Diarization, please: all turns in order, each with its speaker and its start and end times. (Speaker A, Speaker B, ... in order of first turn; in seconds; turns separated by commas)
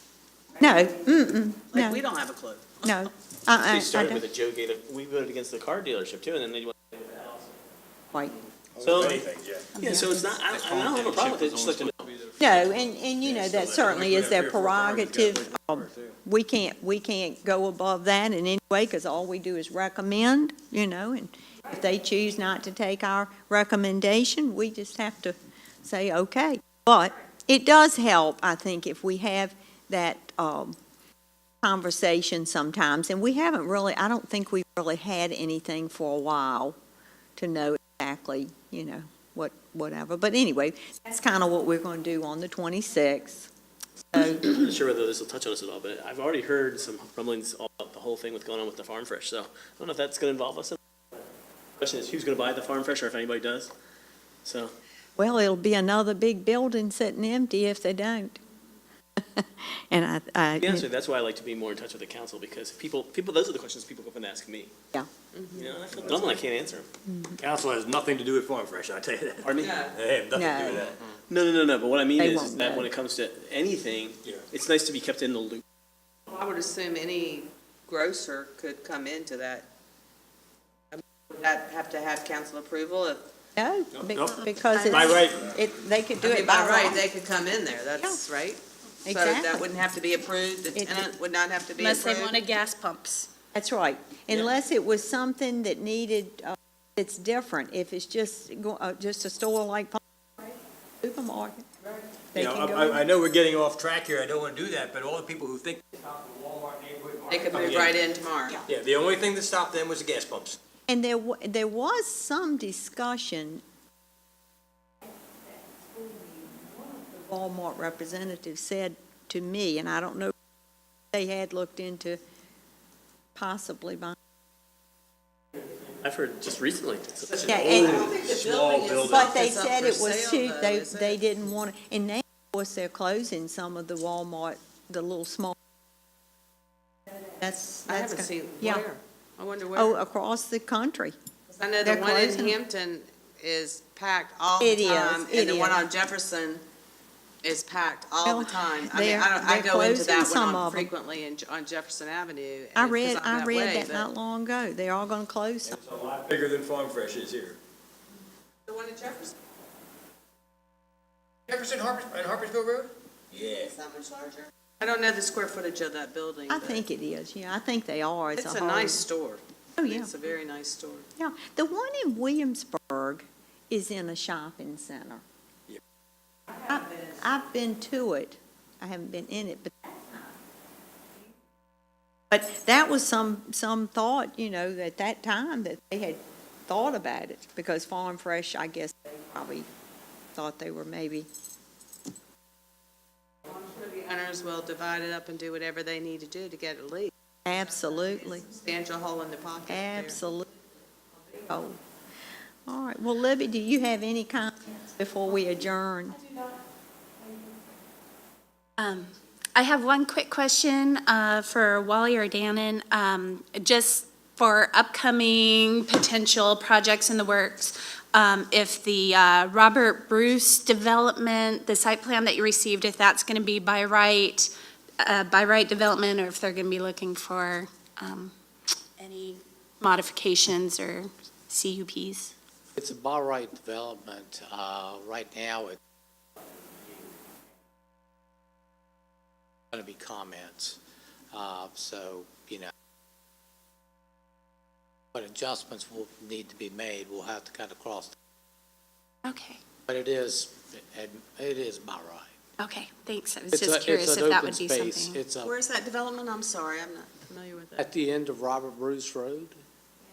Speaker A: 0.6-2.0, Speaker B: 1.7-2.8, Speaker A: 2.8-4.2, Speaker C: 3.5-7.6, Speaker D: 8.8-9.7, Speaker C: 8.8-9.2, Speaker E: 9.8-10.3, Speaker C: 9.8-12.1, Speaker D: 10.5-16.2, Speaker A: 12.4-30.8, Speaker A: 31.6-36.8, Speaker A: 37.4-43.5, Speaker A: 44.1-44.5, Speaker C: 44.2-50.8, Speaker C: 51.8-53.7, Speaker C: 54.5-54.7, Speaker A: 55.2-58.4, Speaker A: 59.2-60.9, Speaker C: 60.6-64.7, Speaker B: 65.3-65.7, Speaker C: 65.5-66.9, Speaker A: 67.1-67.3, Speaker D: 67.4-71.0, Speaker C: 69.4-69.8, Speaker B: 69.6-70.0, Speaker A: 70.3-70.9, Speaker C: 71.3-75.6, Speaker A: 72.2-72.9, Speaker B: 76.3-79.7, Speaker B: 80.9-83.2, Speaker A: 83.6-87.0, Speaker D: 84.0-84.3, Speaker E: 84.7-85.2, Speaker D: 84.9-85.5, Speaker B: 86.2-92.4, Speaker A: 89.0-89.6, Speaker A: 90.7-91.1, Speaker E: 91.8-93.3, Speaker A: 93.5-101.7, Speaker A: 102.3-103.0, Speaker D: 102.3-108.0, Speaker B: 107.3-108.6, Speaker D: 108.7-110.6, Speaker A: 110.9-113.6, Speaker A: 116.2-120.3, Speaker A: 121.1-122.2, Speaker A: 123.3-124.2, Speaker C: 125.9-127.5, Speaker D: 127.3-129.3, Speaker B: 127.4-131.2, Speaker A: 127.5-128.0, Speaker A: 129.1-135.6, Speaker A: 137.4-138.8, Speaker B: 137.9-140.0, Speaker A: 139.8-141.2, Speaker B: 141.5-146.6, Speaker A: 141.8-142.6, Speaker A: 144.6-145.8, Speaker B: 147.4-154.1, Speaker A: 148.2-150.9, Speaker A: 152.8-155.8, Speaker D: 155.7-157.6, Speaker B: 158.7-159.3, Speaker D: 161.5-163.7, Speaker B: 163.4-166.8, Speaker A: 166.5-169.0, Speaker B: 168.3-171.1, Speaker A: 169.8-170.1, Speaker A: 171.2-175.2, Speaker A: 176.7-180.1, Speaker A: 182.3-189.7, Speaker A: 190.3-191.3, Speaker B: 193.4-197.1, Speaker A: 197.5-198.5, Speaker B: 198.3-200.2, Speaker A: 199.7-200.5, Speaker A: 201.4-201.8, Speaker A: 202.7-206.2, Speaker E: 208.8-228.3, Speaker E: 229.0-232.3, Speaker F: 232.8-235.8, Speaker F: 239.7-240.8, Speaker F: 241.3-242.7, Speaker F: 245.1-248.2, Speaker E: 249.2-249.6, Speaker F: 249.9-252.3, Speaker E: 252.6-255.2, Speaker F: 253.5-255.5, Speaker B: 255.4-257.9, Speaker F: 257.8-259.6